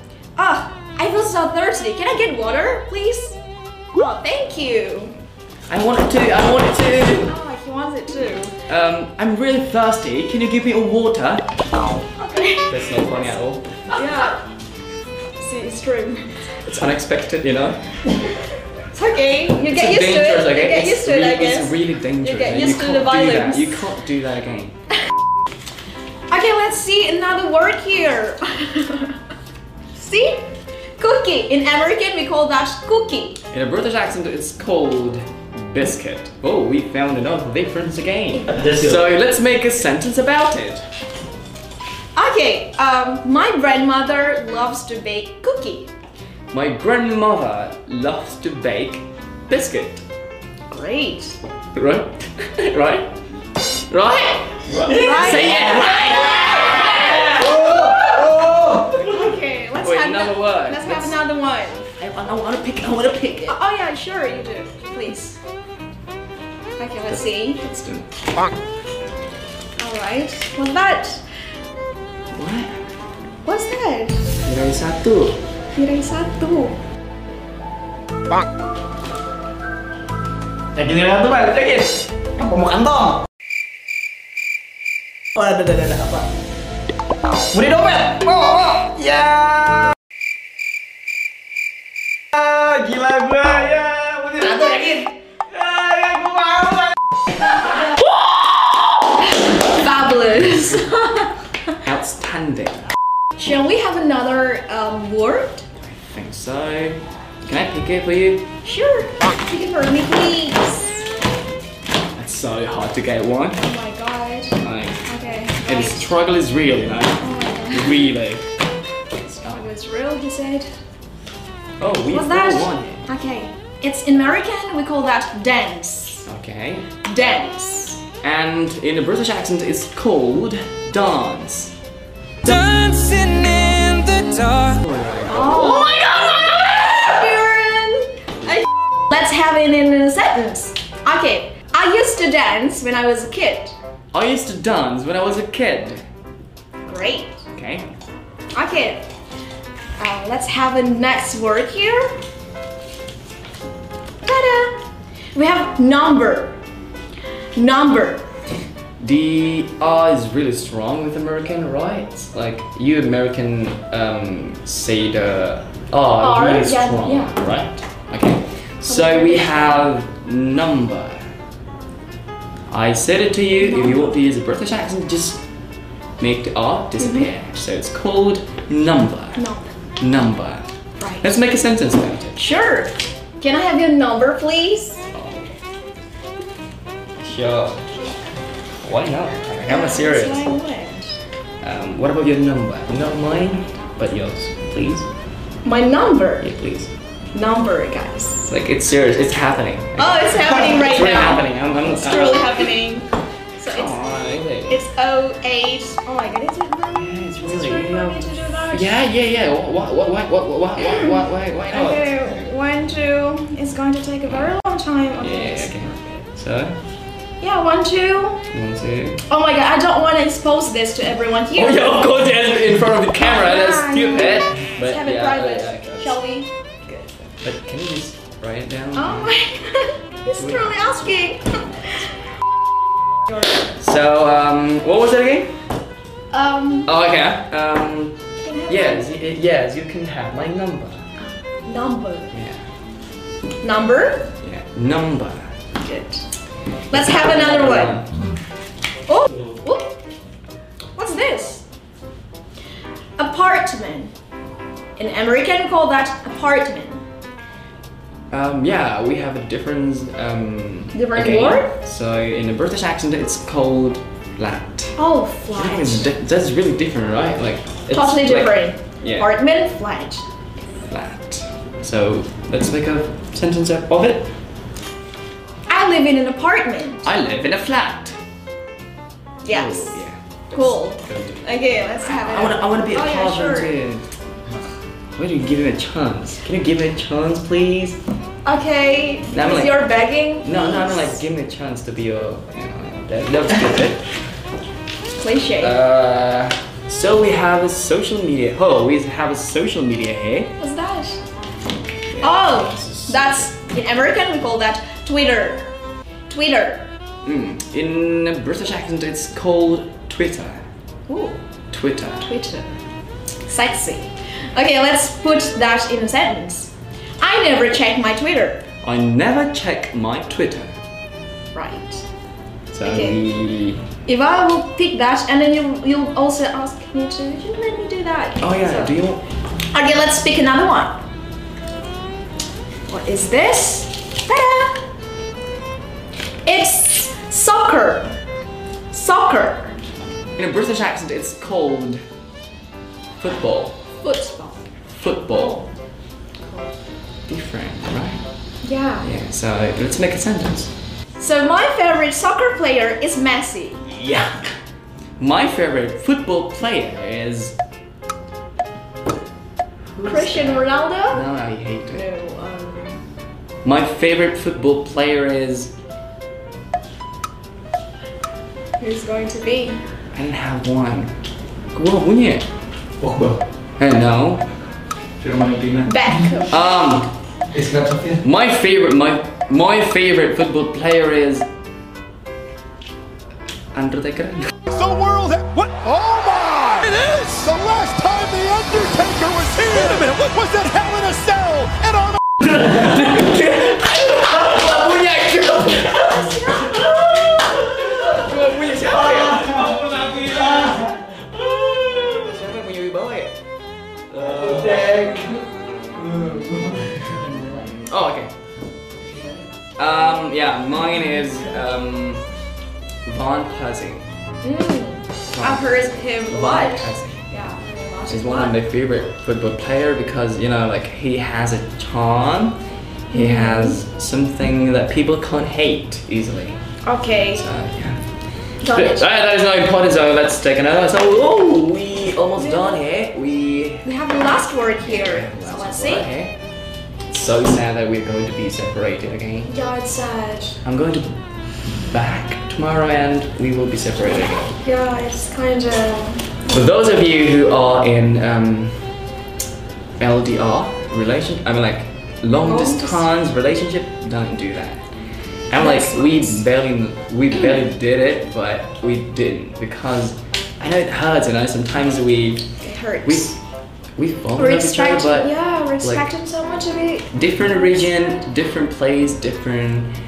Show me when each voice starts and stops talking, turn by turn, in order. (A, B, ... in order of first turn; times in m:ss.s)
0:00.4-0:03.4 A
0:03.9-0:05.1 A
0:05.7-0:07.3 B
0:07.2-0:08.5 A
0:08.7-0:11.5 B
0:12.2-0:12.7 A
0:12.7-0:14.0 B
0:13.9-0:14.4 A
0:15.4-0:16.2 A
0:16.6-0:17.9 B
0:18.9-0:23.8 A
0:19.7-0:24.8 B
0:26.3-0:29.2 A
0:29.9-0:33.4 A
0:33.5-0:40.8 B
0:38.3-0:38.7 A
0:42.2-0:45.9 A
0:46.5-0:50.0 B
0:50.7-0:51.4 A
0:51.7-0:53.1 B
0:53.9-0:57.4 B
0:54.8-1:01.9 A
0:59.8-1:01.2 B
1:02.0-1:03.6 B
1:03.4-1:05.4 A
1:06.8-1:07.6 A
1:07.1-1:08.1 B
1:09.8-1:11.2 A
1:12.3-1:12.8 B
1:13.4-1:14.3 A
1:14.4-1:15.4 B
1:15.8-1:16.8 A
1:20.8-1:23.2 C
1:25.4-1:26.3 C
1:27.5-1:29.8 C
1:32.3-1:36.9 C
1:33.4-1:33.7 D
1:37.6-1:41.3 A
1:40.5-1:40.8 B
1:41.8-1:42.9 B
1:43.4-1:45.6 A
1:45.8-1:48.5 B
1:48.6-1:51.0 A
1:52.2-1:53.6 B
1:53.6-1:56.1 A
1:54.6-1:55.0 B
1:55.6-1:58.5 B
1:57.2-1:58.2 A
1:59.2-1:59.6 B
1:59.4-2:00.7 A
2:01.8-2:03.1 B
2:02.1-2:06.2 A
2:06.2-2:06.9 B
2:07.0-2:08.0 A
2:08.2-2:11.8 B
2:12.4-2:14.8 E
2:14.6-2:16.1 B
2:15.2-2:18.1 A
2:19.1-2:23.8 A
2:24.1-2:26.0 B
2:26.8-2:27.4 A
2:27.5-2:27.9 B
2:28.5-2:29.0 A
2:30.0-2:32.2 A
2:34.2-2:34.8 A
2:35.3-2:36.6 A
2:37.6-2:38.2 A
2:39.0-2:51.2 B
2:46.2-2:47.4 A
2:48.8-2:49.9 A
2:52.7-2:55.4 B
2:53.6-2:54.1 A
2:56.2-2:59.4 B
2:57.0-2:57.3 A
2:59.4-2:59.7 A
3:00.0-3:00.7 B
3:01.2-3:02.4 B
3:02.4-3:05.1 A
3:05.1-3:05.5 B
3:07.2-3:07.8 B
3:08.8-3:10.5 B
3:09.6-3:11.2 A
3:11.6-3:15.1 B
3:15.6-3:16.4 A
3:16.4-3:16.9 B
3:17.3-3:18.5 A
3:18.5-3:22.7 B
3:20.0-3:29.0 A
3:23.7-3:24.8 B
3:26.9-3:32.4 B
3:30.8-3:36.0 A
3:34.2-3:34.5 B
3:35.2-3:36.8 B
3:37.4-3:38.4 A
3:38.5-3:39.2 B
3:39.3-3:42.2 A
3:41.5-3:46.2 B
3:43.2-3:47.1 A
3:47.4-3:49.4 B
3:48.9-3:52.1 A
3:50.3-3:50.8 B
3:53.8-3:55.6 B
3:56.3-3:56.9 A
3:56.8-4:01.0 B
3:58.4-3:59.1 A
4:01.2-4:02.3 A
4:02.3-4:02.6 B
4:03.6-4:04.3 A
4:04.4-4:05.4 B
4:05.8-4:06.2 A
4:06.9-4:08.1 B
4:06.9-4:08.0 A
4:09.1-4:09.9 A
4:11.0-4:11.6 A
4:13.2-4:14.1 A
4:15.0-4:17.0 A
4:18.3-4:25.0 B
4:20.9-4:21.7 A
4:25.0-4:26.1 A
4:25.6-4:29.3 B
4:27.9-4:30.2 A
4:30.9-4:34.3 B
4:35.7-4:37.0 A
4:37.0-4:38.2 B
4:39.4-4:43.7 A
4:39.5-4:44.1 B
4:45.2-4:48.0 B
4:48.4-4:51.2 A
4:49.3-4:49.9 B
4:50.4-4:54.0 B
4:55.2-4:55.8 A
4:55.6-5:00.6 B
5:00.6-5:01.2 A
5:02.1-5:03.5 B
5:02.2-5:05.7 A
5:06.3-5:06.9 A
5:07.2-5:10.6 B
5:11.1-5:11.4 A
5:11.7-5:12.3 B
5:12.2-5:12.8 A
5:13.4-5:18.6 A
5:18.8-5:20.8 B
5:21.5-5:22.0 A
5:22.7-5:23.9 B
5:22.8-5:23.2 A
5:24.0-5:28.9 A
5:28.4-5:29.2 B
5:29.7-5:30.9 A
5:32.9-5:34.8 A
5:36.4-5:38.2 A
5:38.9-5:39.8 A
5:40.4-5:42.0 B
5:43.2-5:43.8 B
5:44.0-5:44.6 A
5:44.9-5:45.6 B
5:45.3-5:45.6 A
5:46.4-5:46.7 A
5:47.3-5:48.2 B
5:48.6-5:49.1 A
5:49.0-5:50.7 B
5:51.2-5:53.8 A
5:53.9-5:54.4 B
5:55.2-5:57.5 B
6:00.0-6:02.1 B
6:00.0-6:01.2 A
6:01.9-6:03.0 A
6:03.6-6:05.7 B
6:08.8-6:09.8 A
6:10.1-6:11.1 B
6:11.7-6:12.5 B
6:13.0-6:13.4 C
6:13.8-6:14.5 B
6:15.3-6:15.6 E
6:15.3-6:15.9 D
6:15.8-6:16.6 A
6:16.5-6:17.1 B
6:17.5-6:18.2 C
6:18.2-6:21.5 B
6:23.7-6:24.5 B
6:24.7-6:32.2 D
6:29.7-6:30.1 B
6:32.4-6:43.3 B
6:36.2-6:36.8 A
6:44.1-6:46.5 B
6:47.4-6:48.3 B
6:49.8-6:52.2 B
6:53.1-6:54.1 B
6:54.4-6:58.6 A
6:55.3-6:57.3 B
6:58.1-7:02.6 B
7:03.1-7:06.6 B
7:03.1-7:03.8 A
7:06.8-7:07.4 A
7:07.3-7:08.0 B
7:08.6-7:09.1 A
7:08.7-7:13.9 B
7:12.4-7:12.8 A
7:13.8-7:16.1 A
7:14.8-7:16.4 B
7:17.1-7:19.5 B
7:19.5-7:20.6 A
7:20.6-7:21.2 B
7:21.9-7:24.6 B
7:24.6-7:26.4 A
7:26.5-7:28.9 B
7:30.0-7:34.8 B
7:32.3-7:33.1 A
7:35.5-7:42.5 B
7:35.6-7:36.4 A
7:42.6-7:43.3 A
7:43.0-7:43.4 B
7:44.0-7:46.1 B
7:44.4-7:48.0 A
7:47.1-7:49.9 B